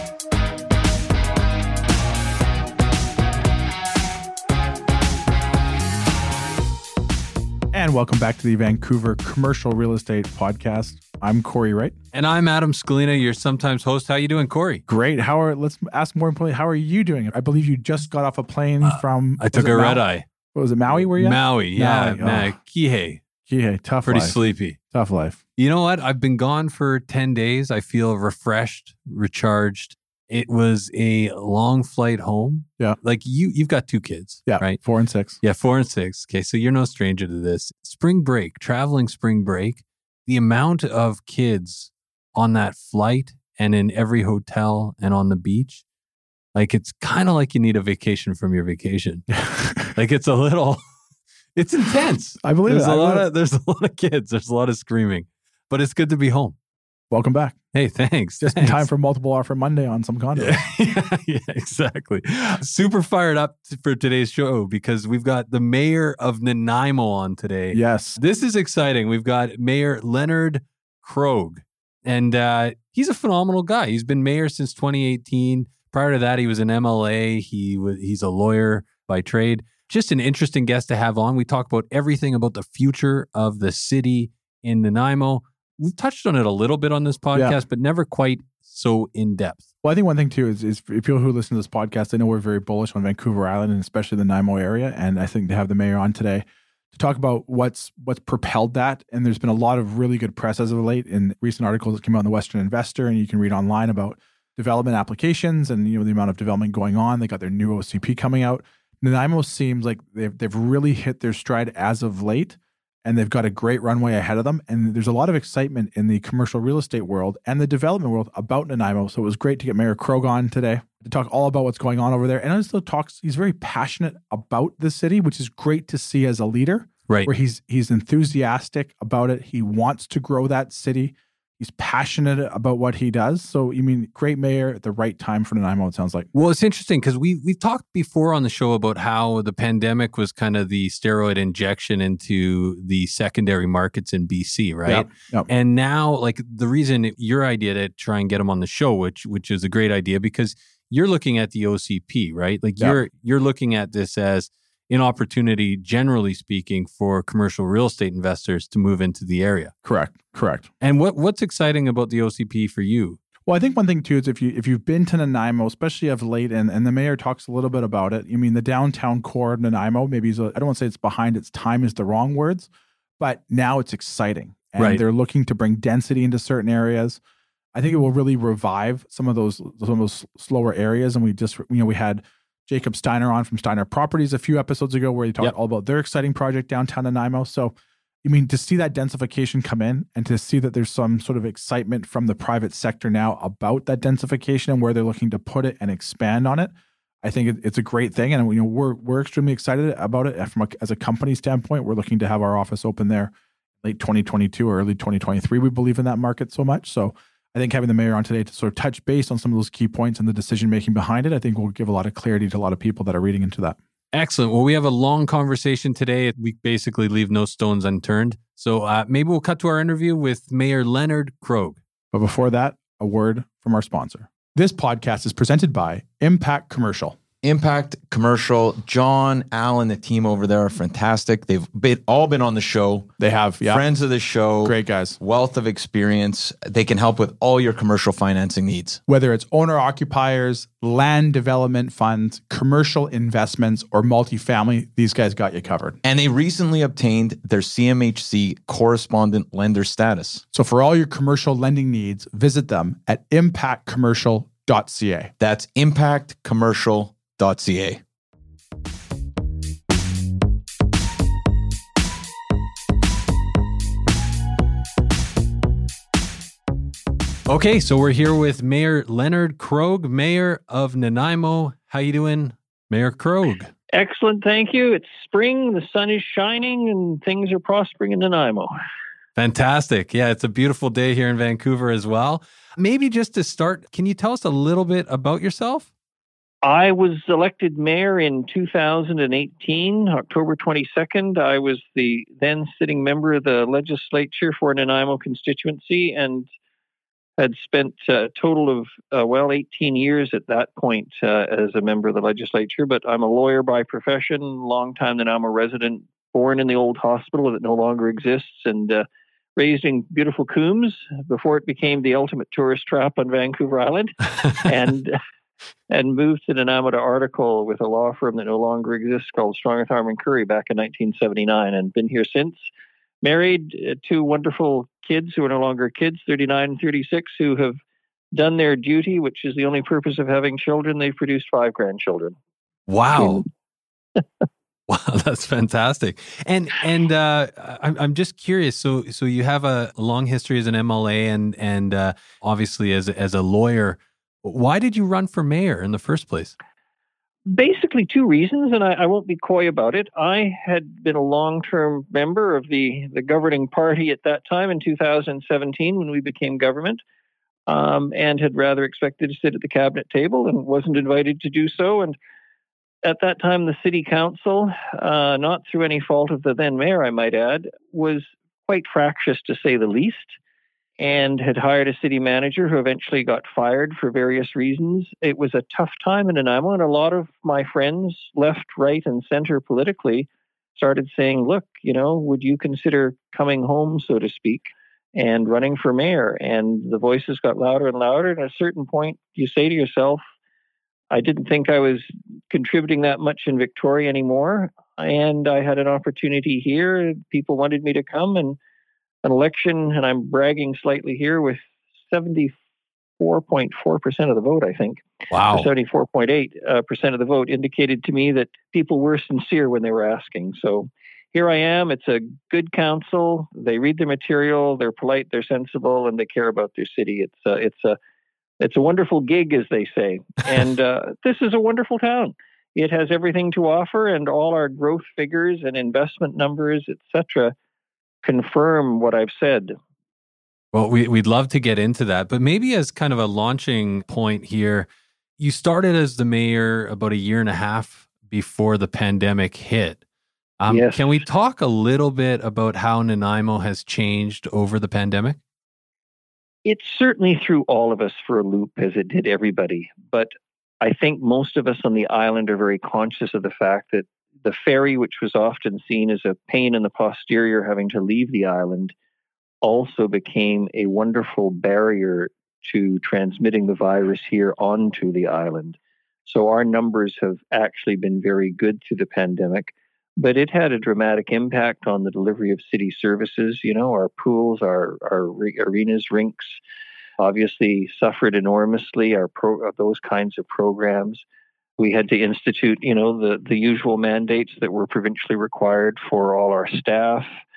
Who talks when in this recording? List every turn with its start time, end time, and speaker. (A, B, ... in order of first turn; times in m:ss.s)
0:07.7-0:11.9 A
0:12.1-0:14.8 B
0:14.9-0:22.5 A
0:18.8-0:20.2 B
0:20.9-0:23.2 B
0:23.5-0:24.4 A
0:24.0-0:24.8 B
0:24.9-0:25.4 A
0:25.6-0:34.8 B
0:34.5-0:35.4 A
0:35.4-0:45.8 B
0:46.5-0:50.8 B
0:49.5-0:49.9 A
0:51.5-0:56.6 B
0:52.4-0:53.2 A
0:57.1-0:57.6 A
0:57.7-0:58.9 B
0:58.4-1:00.6 A
1:00.4-1:29.6 B
1:07.7-1:08.2 A
1:29.8-2:16.3 A
2:16.3-2:39.7 B
2:24.8-2:25.5 A
2:39.8-2:40.7 A
2:40.8-2:43.2 B
2:43.4-2:57.2 A
2:57.7-3:07.7 A
3:08.2-3:16.7 A
3:17.2-3:33.8 A
3:34.1-3:41.8 B
3:42.1-3:47.2 A
3:47.4-3:59.0 C
3:53.2-3:53.8 A
3:54.6-3:55.2 A
3:59.1-4:06.0 A
4:06.0-4:10.4 C
4:10.5-4:15.3 A
4:15.4-4:18.0 C
4:27.5-4:33.7 B
4:33.9-4:38.7 D
4:39.4-4:45.9 B
4:46.6-4:56.5 D
4:57.4-5:15.2 D
5:15.9-5:22.7 D
5:23.2-5:27.8 D
5:28.3-5:32.3 D
5:32.9-5:33.4 B
5:33.1-5:33.4 D
5:34.9-5:46.5 B
5:47.5-5:57.0 D
5:57.7-6:02.2 D
6:03.0-6:10.4 D
6:11.0-6:30.2 D
6:31.1-6:38.6 D
6:39.2-6:42.5 D
6:43.2-6:58.0 D
6:45.3-6:45.7 B
6:58.6-7:07.5 D
7:08.2-7:09.8 D
7:10.7-7:20.0 B
7:20.6-7:25.4 B
7:20.7-7:21.2 D
7:26.6-7:38.9 D
7:39.6-7:56.6 D
7:57.2-8:01.2 D
8:01.8-8:07.3 D